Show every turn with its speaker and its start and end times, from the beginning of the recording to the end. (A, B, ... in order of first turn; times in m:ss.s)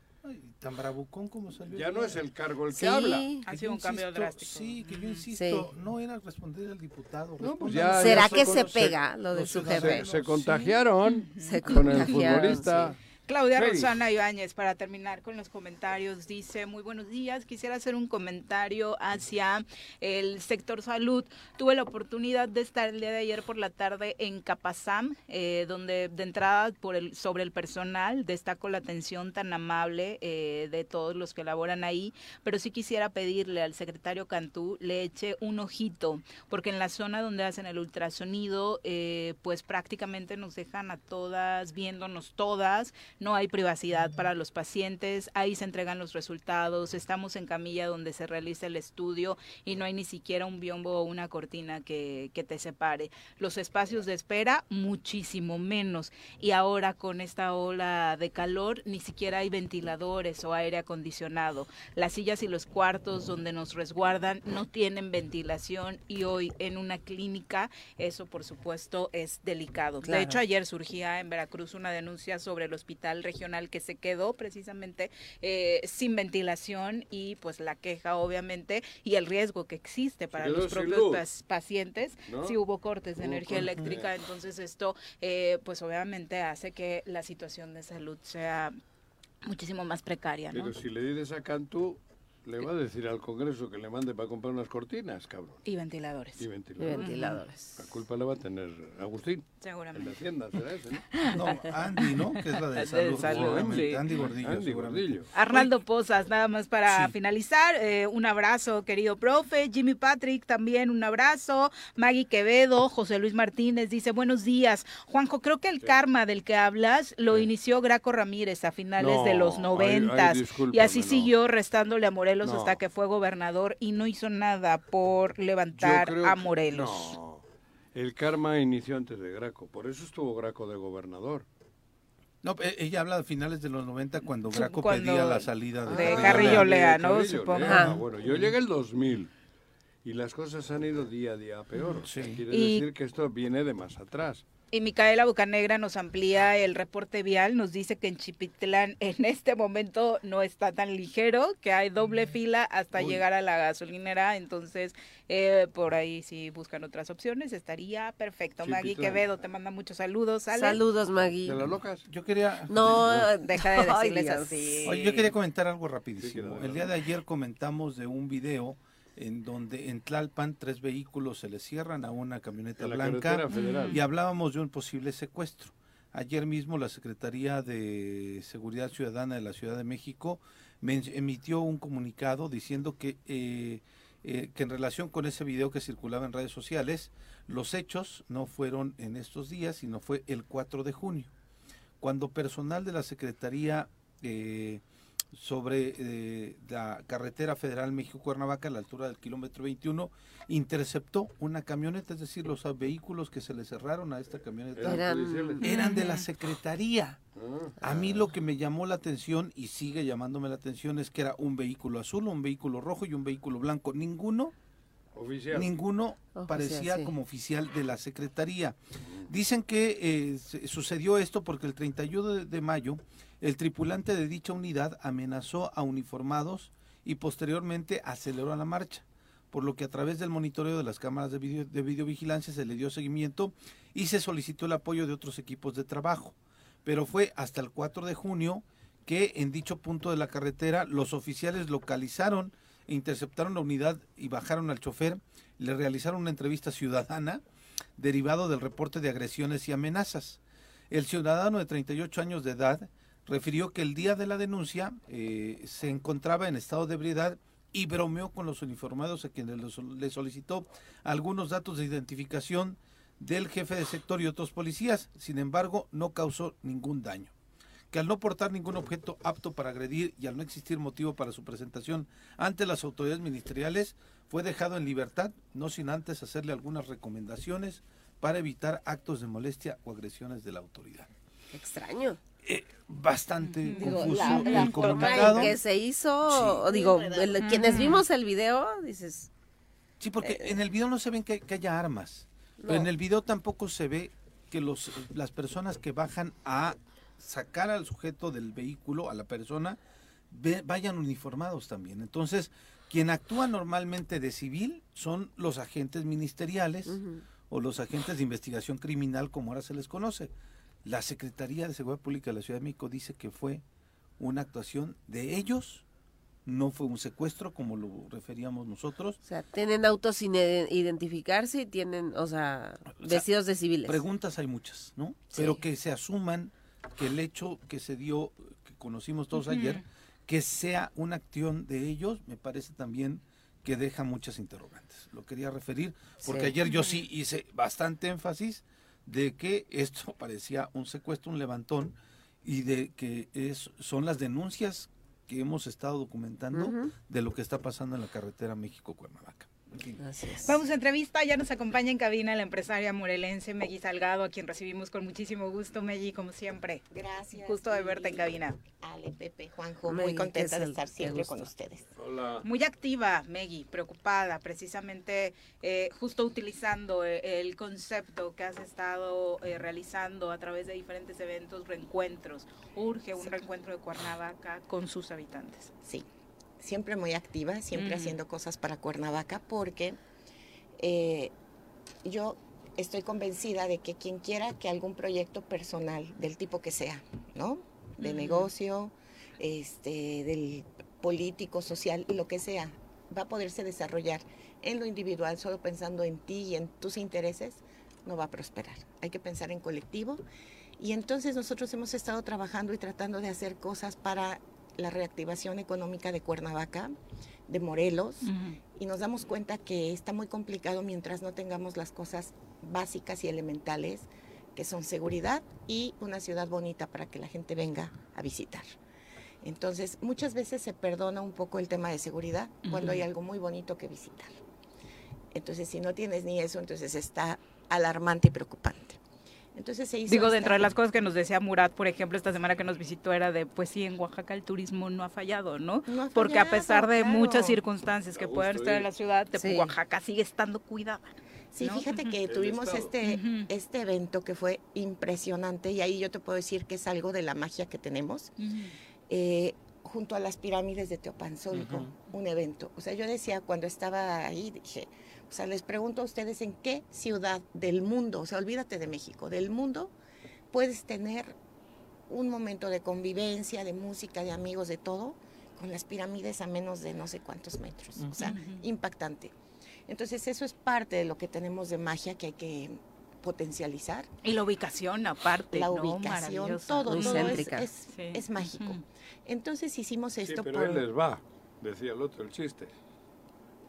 0:00.2-0:02.2 A
0:01.7-0:03.3 B
0:02.7-0:03.4 C
0:03.4-0:05.2 D
0:03.5-0:10.5 A
0:05.3-0:05.7 C
0:07.4-0:09.0 B
0:08.0-0:10.1 C
0:09.7-0:13.0 B
0:10.6-0:12.6 D
0:11.4-0:12.9 C
0:13.3-1:28.8 D
0:13.6-0:13.9 B
1:10.0-1:10.4 C
1:20.4-1:21.2 B
1:22.3-1:22.6 B
1:23.2-1:24.1 B
1:23.6-1:24.0 A
1:29.4-1:30.7 D
1:30.5-1:35.6 B
1:35.7-1:37.4 D
1:36.4-1:41.1 B
1:36.8-1:37.8 C
1:39.6-1:40.2 D
1:41.3-1:45.1 A
1:42.0-1:44.0 D
1:43.2-1:45.3 B
1:45.3-2:07.2 D
1:46.9-1:47.1 A
1:59.0-2:01.3 B
2:02.4-2:02.8 B
2:05.8-2:07.4 B
2:07.9-2:11.4 B
2:12.4-2:16.7 A
2:14.2-2:17.8 D
2:15.9-2:19.3 B
2:17.6-2:18.0 C
2:17.8-2:18.5 A
2:20.0-2:24.4 B
2:22.0-2:22.4 A
2:22.5-2:22.9 D
2:24.7-2:40.8 D
2:33.0-2:33.2 B
2:38.6-2:39.2 B
2:40.5-2:41.7 C
2:41.4-2:42.0 B
2:42.1-2:43.3 A
2:42.7-2:45.0 C
2:42.8-2:43.1 B
2:43.5-2:45.3 D
2:44.8-3:11.3 A
2:46.2-2:46.9 B
2:52.8-2:54.0 B
2:53.5-2:54.0 D
3:12.0-3:14.8 A
3:15.3-3:25.1 A
3:24.8-3:25.6 B
3:24.8-3:25.6 C
3:25.6-3:26.3 D
3:25.6-3:27.2 A
3:27.4-3:28.2 B
3:27.8-3:34.5 A
3:35.2-3:35.7 B
3:35.5-4:07.4 A
3:36.4-3:37.1 C
4:08.0-4:27.3 A
4:27.9-4:41.1 A
4:41.5-4:42.2 C
4:42.4-4:45.6 A
4:43.6-4:45.4 D
4:43.7-4:49.3 C
4:46.3-4:47.2 A
4:47.4-4:48.0 D
4:50.0-4:59.8 A
4:50.2-4:50.6 C
4:52.6-4:52.9 C
5:00.3-5:07.0 A
5:06.9-5:07.2 C
5:07.5-5:10.3 A
5:10.8-5:13.6 A
5:14.2-5:15.8 A
5:16.5-5:19.2 A
5:19.2-5:24.0 C
5:23.0-5:23.3 A
5:23.8-5:50.0 A
5:25.3-5:25.6 C
5:29.3-5:29.8 D
5:36.2-5:36.5 C
5:36.7-5:37.0 D
5:46.5-5:46.9 C
5:50.0-5:50.6 C
5:50.4-5:58.6 D
5:56.9-6:01.9 E
5:59.9-6:01.5 C
6:02.0-6:02.4 B
6:02.4-6:15.7 D
6:13.2-6:13.5 E
6:16.6-6:20.0 E
6:17.7-6:18.2 D
6:20.8-6:21.3 E
6:22.0-6:40.2 E
6:28.0-6:28.5 D
6:40.8-6:46.9 E
6:47.5-6:58.7 E
6:48.2-6:48.6 D
6:59.4-7:04.3 E
7:02.6-7:03.1 D
7:05.3-7:09.0 E
7:09.6-7:10.7 E
7:10.1-7:22.2 D
7:15.9-7:17.6 E
7:18.1-7:18.9 B
7:19.4-7:19.7 C
7:21.5-7:28.3 E
7:22.2-7:22.9 B
7:23.0-7:23.5 D
7:28.4-7:28.7 D
7:29.1-7:39.9 E
7:31.5-7:31.9 A
7:40.5-7:41.4 E
7:42.1-7:49.3 E
7:48.2-7:48.6 D
7:49.9-7:54.1 E
7:54.2-7:58.8 D
7:55.5-8:00.8 E
7:56.9-7:57.7 C
8:00.2-8:02.7 B